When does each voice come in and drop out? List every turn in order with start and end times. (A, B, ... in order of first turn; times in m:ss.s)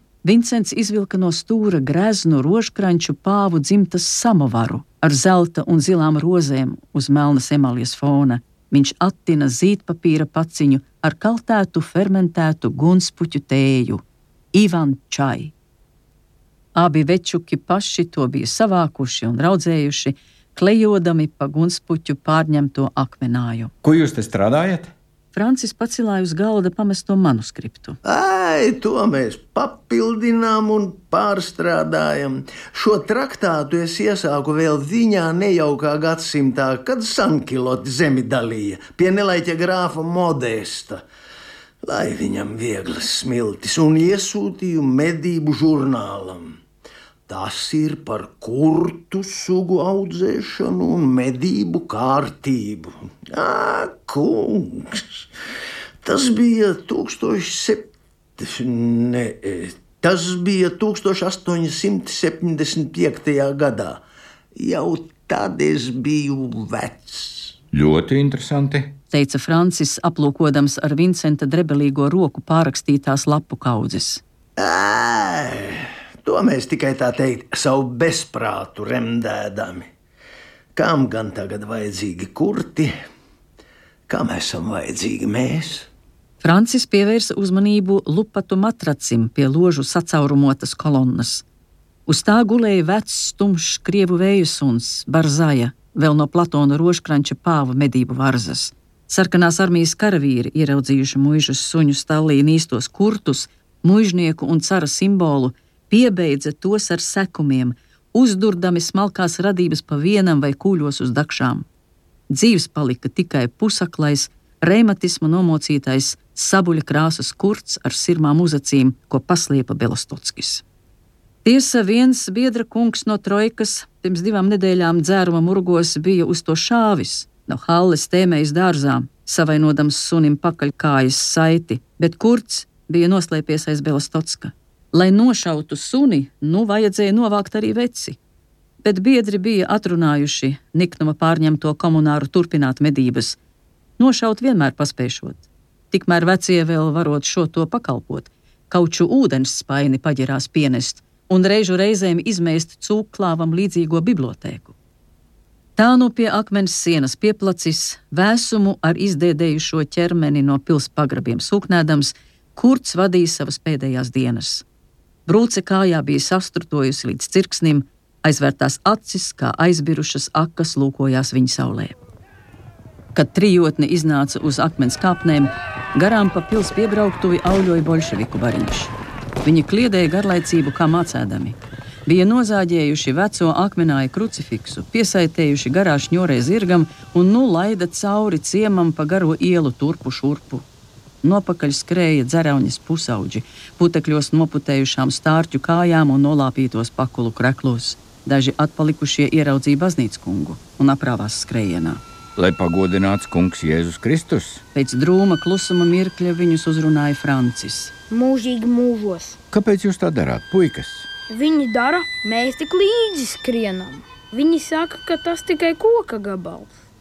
0:00.2-0:14.0 A
0:14.5-0:15.5 A
0:16.7-0:23.7 A
0:23.8-0:24.9 B
0:25.3-0:28.0 A
0:28.0-0:41.0 C
0:41.8-0:46.6 C
0:47.3-0:55.2 C
0:56.0-1:04.0 C
1:04.5-1:07.5 C
1:07.7-1:08.9 B
1:09.1-1:14.2 A
1:14.6-1:19.9 C
1:20.7-1:22.9 C
1:24.1-1:25.9 C
1:26.4-1:31.4 A
1:32.1-1:51.7 A
1:52.3-2:00.6 A
2:01.4-2:18.2 A
2:18.8-2:23.4 A
2:24.0-2:34.7 A
2:35.8-2:44.6 A
2:45.2-2:52.0 A
2:53.1-2:58.9 A
2:59.4-3:10.6 A
3:11.2-3:22.0 A
3:22.4-3:24.6 B
3:24.7-3:27.9 A
3:28.1-3:29.4 D
3:29.5-3:31.1 B
3:31.3-3:36.8 D